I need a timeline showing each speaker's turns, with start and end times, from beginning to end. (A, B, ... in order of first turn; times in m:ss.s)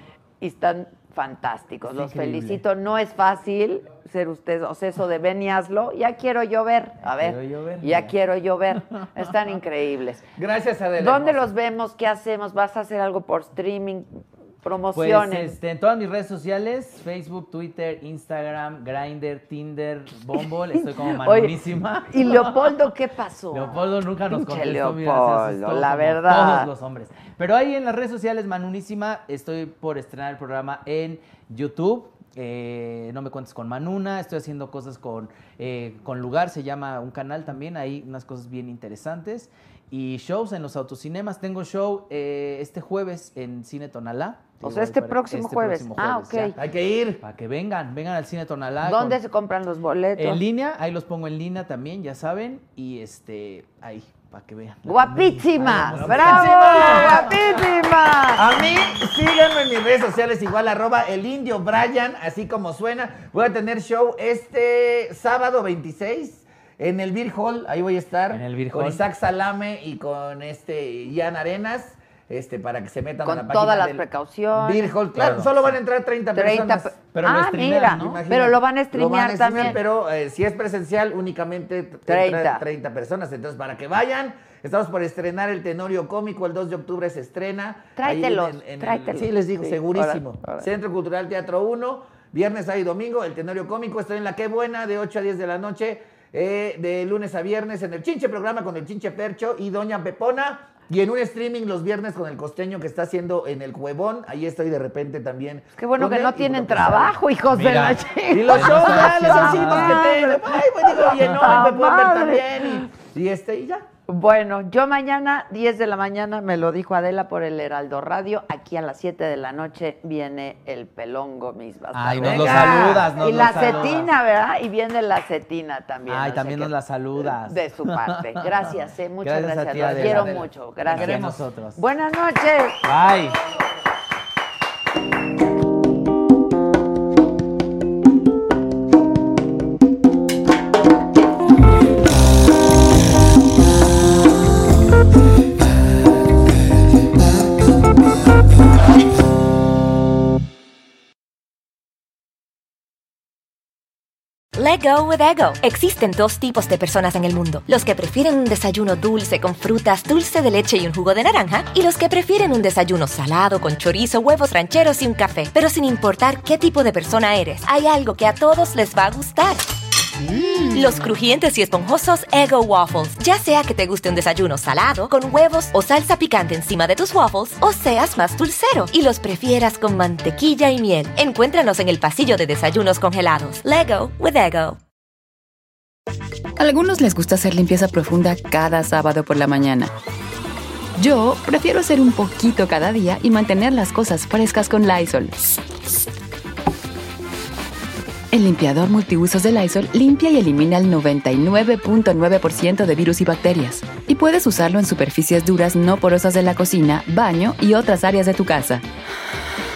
0:00.4-0:10.2 A
0:01.8-0:02.6 B
0:07.1-0:08.1 B
0:10.4-0:11.5 C
0:11.0-0:15.6 A
0:14.9-0:22.7 B
0:20.4-0:26.7 A
0:23.5-0:46.6 B
0:44.6-0:46.6 A
0:46.6-0:47.2 C
0:47.2-0:49.2 B
0:48.8-0:50.4 A
0:50.2-0:57.6 B
0:54.8-0:58.5 A
0:55.8-0:57.6 C
0:58.4-1:47.2 C
1:08.3-1:09.0 B
1:13.2-1:15.0 A
1:15.1-1:15.8 B
1:16.3-1:19.8 A
1:22.1-1:22.6 A
1:28.0-1:30.7 A
1:45.8-1:52.9 A
1:47.5-1:50.1 B
1:48.3-1:53.8 C
1:54.1-2:12.8 A
2:01.9-2:04.1 B
2:02.2-2:03.4 C
2:06.1-2:11.8 B
2:09.8-2:11.2 C
2:12.8-2:13.4 B
2:34.6-2:49.6 D
2:50.5-3:04.8 D
3:06.6-3:09.9 E
3:11.0-3:15.6 E
3:18.3-3:28.8 E